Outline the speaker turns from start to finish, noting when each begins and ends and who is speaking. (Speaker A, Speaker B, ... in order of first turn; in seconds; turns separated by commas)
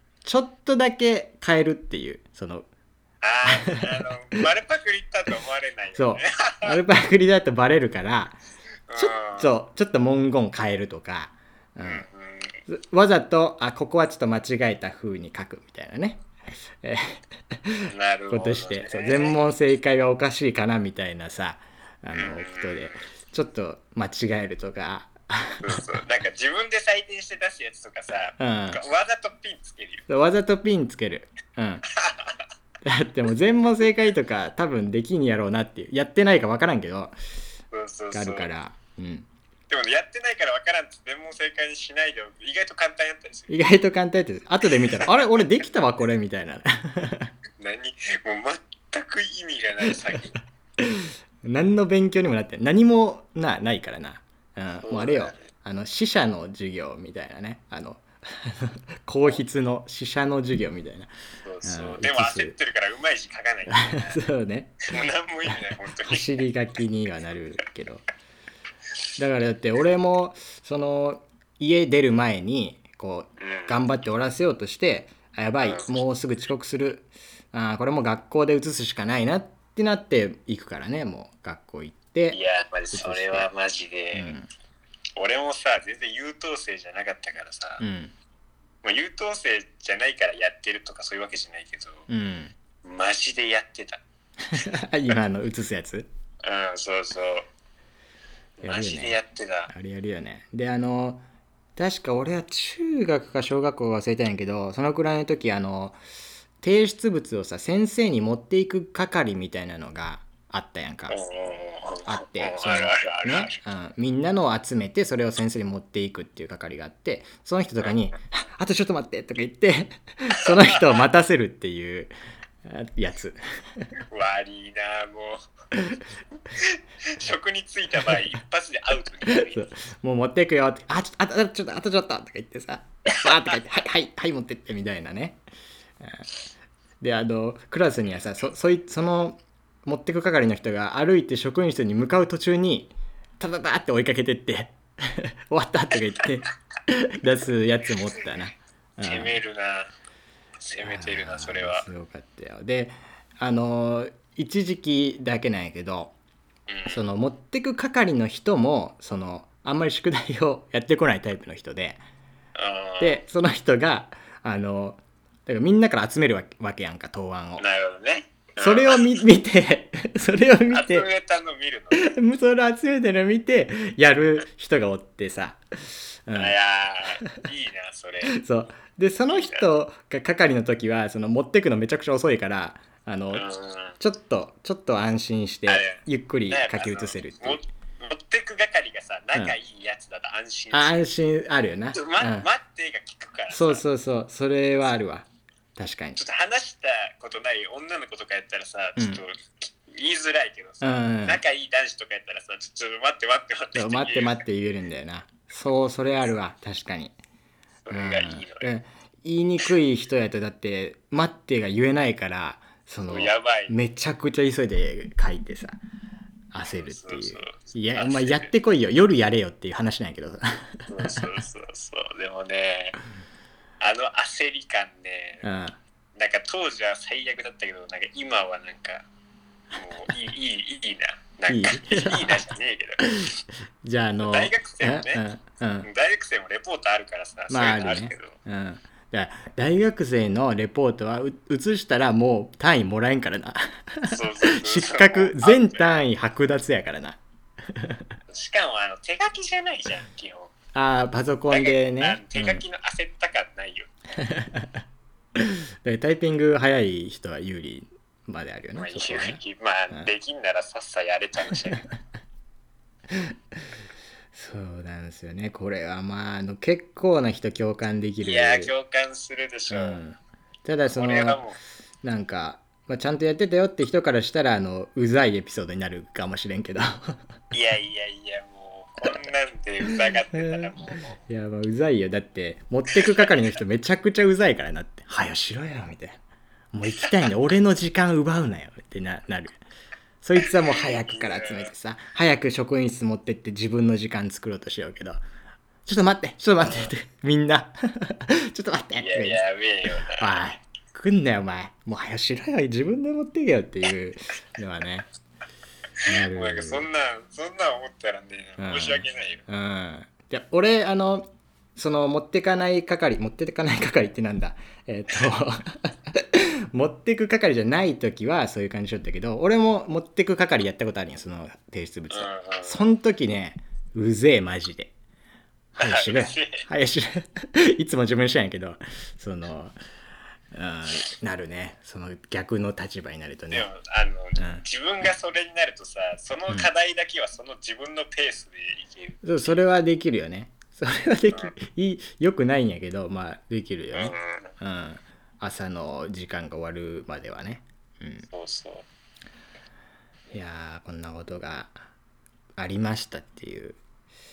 Speaker A: 0.2-2.7, Speaker B: 3.2-6.8, Speaker A: 6.0-8.4, Speaker B: 8.9-9.5, Speaker A: 8.9-12.1, Speaker B: 11.8-12.6, Speaker A: 12.7-16.2, Speaker A: 16.8-25.7, Speaker B: 17.9-19.4, Speaker B: 22.1-23.0, Speaker B: 25.6-30.1, Speaker A: 28.4-28.8, Speaker A: 30.1-31.8, Speaker B: 31.9-32.4, Speaker A: 32.8-37.1, Speaker B: 37.7-38.5, Speaker A: 38.1-39.3, Speaker B: 39.7-43.5, Speaker A: 43.5-47.3, Speaker B: 44.8-45.1, Speaker B: 47.6-50.3, Speaker A: 50.8-61.1, Speaker B: 54.8-55.4, Speaker B: 61.4-64.2, Speaker A: 61.6-62.6, Speaker A: 63.9-64.9, Speaker B: 64.9-66.3, Speaker A: 66.0-68.0, Speaker A: 69.2-82.4, Speaker B: 73.4-73.8, Speaker B: 75.6-75.9, Speaker B: 82.3-84.3, Speaker A: 82.9-83.5, Speaker A: 84.1-84.5, Speaker B: 85.2-87.8, Speaker A: 87.8-88.1, Speaker B: 88.8-92.1, Speaker A: 92.1-92.5, Speaker B: 92.8-94.0, Speaker A: 94.5-96.1, Speaker B: 96.4-97.5, Speaker B: 98.6-99.7, Speaker A: 98.6-99.2, Speaker A: 99.7-101.2, Speaker A: 101.8-106.0, Speaker A: 106.6-111.2, Speaker B: 111.1-113.5, Speaker A: 112.0-123.9, Speaker B: 124.1-125.4, Speaker A: 125.7-126.0, Speaker B: 126.6-129.7, Speaker A: 129.2-135.4, Speaker A: 136.0-136.2, Speaker A: 137.0-149.4, Speaker B: 138.1-138.5, Speaker B: 149.0-149.9, Speaker B: 150.6-151.9, Speaker A: 150.8-156.1, Speaker B: 156.7-157.0, Speaker A: 156.9-162.0, Speaker B: 162.6-163.2, Speaker A: 163.0-167.6, Speaker B: 167.6-169.0, Speaker A: 168.6-171.1, Speaker B: 170.7-172.1, Speaker A: 171.9-176.5, Speaker B: 176.3-178.4, Speaker A: 178.3-183.5, Speaker B: 179.3-179.7, Speaker B: 183.3-184.0, Speaker A: 184.0-187.6, Speaker B: 185.7-191.1, Speaker A: 190.7-192.5, Speaker B: 191.9-193.8, Speaker A: 193.5-196.2, Speaker B: 196.2-204.4, Speaker A: 199.0-199.2, Speaker A: 200.8-201.4, Speaker A: 203.7-207.1, Speaker B: 207.8-208.7, Speaker A: 207.9-215.8, Speaker B: 213.1-213.7, Speaker A: 216.5-221.2, Speaker B: 216.8-218.5, Speaker B: 220.9-223.0, Speaker B: 223.8-225.4, Speaker A: 225.4-225.8, Speaker B: 226.2-229.0, Speaker B: 229.7-233.2, Speaker A: 231.5-232.4, Speaker A: 233.0-233.3, Speaker A: 233.8-235.9, Speaker B: 234.2-235.2, Speaker B: 235.8-238.3, Speaker A: 237.5-247.2, Speaker B: 244.1-246.0, Speaker A: 247.7-248.0, Speaker B: 248.3-250.5, Speaker A: 250.7-252.6, Speaker B: 251.5-253.9, Speaker A: 254.2-254.8, Speaker A: 255.4-259.4, Speaker B: 258.8-261.9, Speaker A: 264.3-268.7, Speaker B: 268.2-270.0, Speaker A: 269.7-271.4, Speaker B: 270.9-271.6, Speaker A: 272.0-277.1, Speaker B: 277.5-281.1, Speaker A: 279.0-286.2, Speaker B: 283.1-283.3, Speaker A: 286.7-289.6, Speaker A: 290.2-295.2, Speaker B: 290.4-291.7, Speaker A: 295.8-299.4, Speaker B: 298.9-300.4, Speaker A: 300.1-305.1, Speaker B: 306.0-309.4, Speaker A: 306.1-306.9, Speaker A: 308.6-324.9, Speaker B: 322.1-322.9, Speaker A: 325.8-329.8, Speaker B: 325.8-326.6, Speaker A: 330.5-333.7, Speaker B: 333.5-339.5, Speaker A: 334.4-334.6, Speaker A: 339.2-348.3, Speaker B: 343.9-344.5, Speaker B: 348.3-348.9, Speaker A: 350.3-351.8, Speaker A: 352.6-353.8